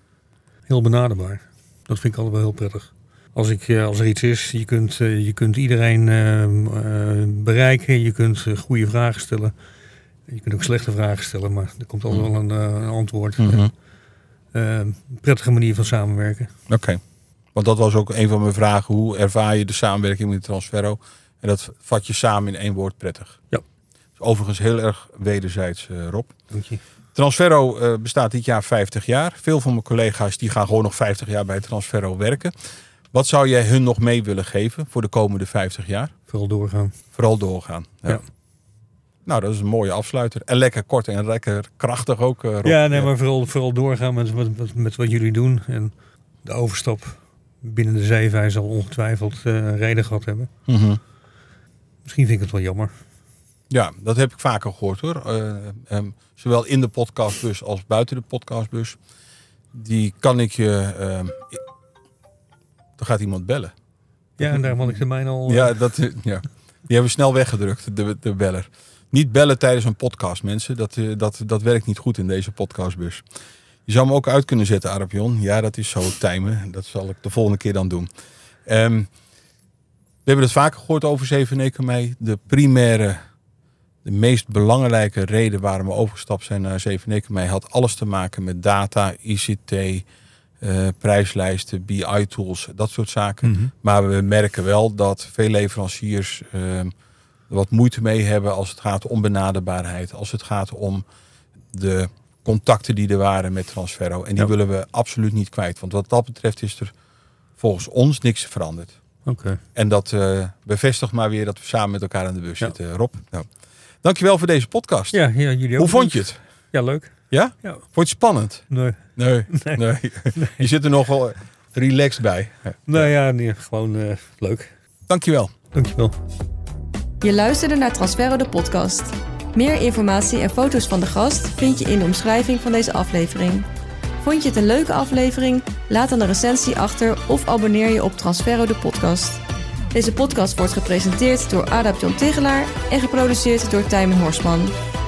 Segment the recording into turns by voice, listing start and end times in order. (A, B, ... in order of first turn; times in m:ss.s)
0:00.7-0:09.5 A
0:10.3-0:13.7 A
0:13.4-0:13.7 B
0:14.5-0:16.5 A
0:16.7-0:17.0 B
0:17.5-0:23.4 B
0:24.2-0:26.3 B
0:26.5-0:26.8 A
0:27.1-0:32.5 B
0:33.1-0:36.1 B
0:36.3-0:37.0 A
0:37.1-0:38.2 B
0:39.2-0:43.1 B
0:42.6-0:45.9 A
0:46.4-0:50.5 A
0:50.7-0:51.0 B
0:52.0-0:52.9 A
0:53.7-0:59.0 B
0:59.7-1:01.6 B
1:03.0-1:03.7 B
1:04.4-1:05.8 A
1:04.4-1:04.9 B
1:05.5-1:13.2 B
1:13.9-1:18.1 B
1:18.6-1:19.1 B
1:20.2-1:23.2 B
1:24.0-1:30.0 B
1:30.6-1:36.9 B
1:33.4-1:33.7 A
1:37.5-1:41.0 B
1:41.7-1:46.9 B
1:47.6-1:48.9 B
1:49.2-1:49.6 A
1:49.7-1:53.5 B
1:54.0-1:55.2 B
1:55.1-1:57.1 A
1:55.8-1:56.4 B
1:57.3-1:58.6 B
1:58.7-2:00.7 A
1:59.2-2:03.1 B
2:02.9-2:04.7 A
2:05.1-2:05.5 B
2:05.7-2:06.1 A
2:07.2-2:13.6 C
2:14.2-2:19.4 C
2:19.9-2:24.7 C